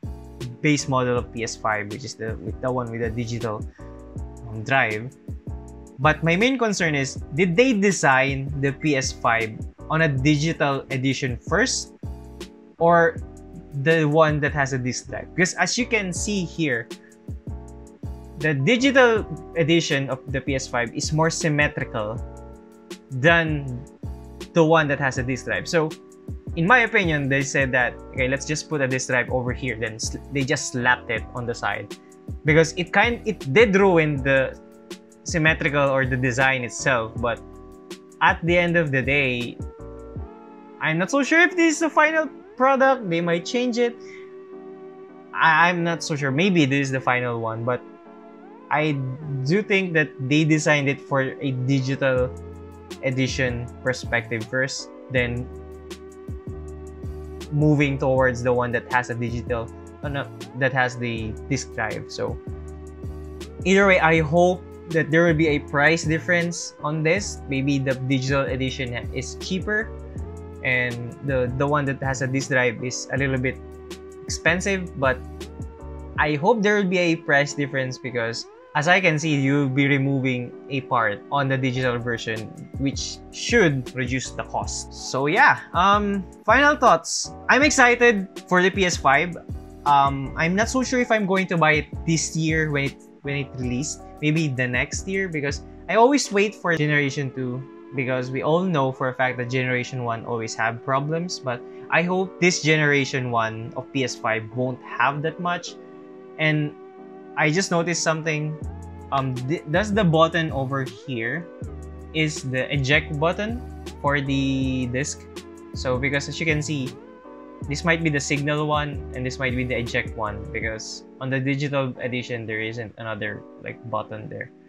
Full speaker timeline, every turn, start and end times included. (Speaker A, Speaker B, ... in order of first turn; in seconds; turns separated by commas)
Speaker A: 0.6-3.6, Speaker A: 4.4-5.1, Speaker A: 6.0-11.9, Speaker A: 12.8-13.2, Speaker A: 13.7-16.9, Speaker A: 18.4-22.2, Speaker A: 23.1-23.9, Speaker A: 24.5-26.0, Speaker A: 26.6-31.9, Speaker A: 32.4-34.5, Speaker A: 35.2-37.4, Speaker A: 38.2-39.6, Speaker A: 40.8-44.0, Speaker A: 45.3-47.9, Speaker A: 48.7-52.3, Speaker A: 53.0-55.5, Speaker A: 57.5-62.4, Speaker A: 63.6-69.9, Speaker A: 70.6-73.6, Speaker A: 74.3-75.2, Speaker A: 76.2-105.8, Speaker A: 106.4-106.8, Speaker A: 107.4-108.6, Speaker A: 109.1-111.5, Speaker A: 112.1-117.0, Speaker A: 117.7-124.5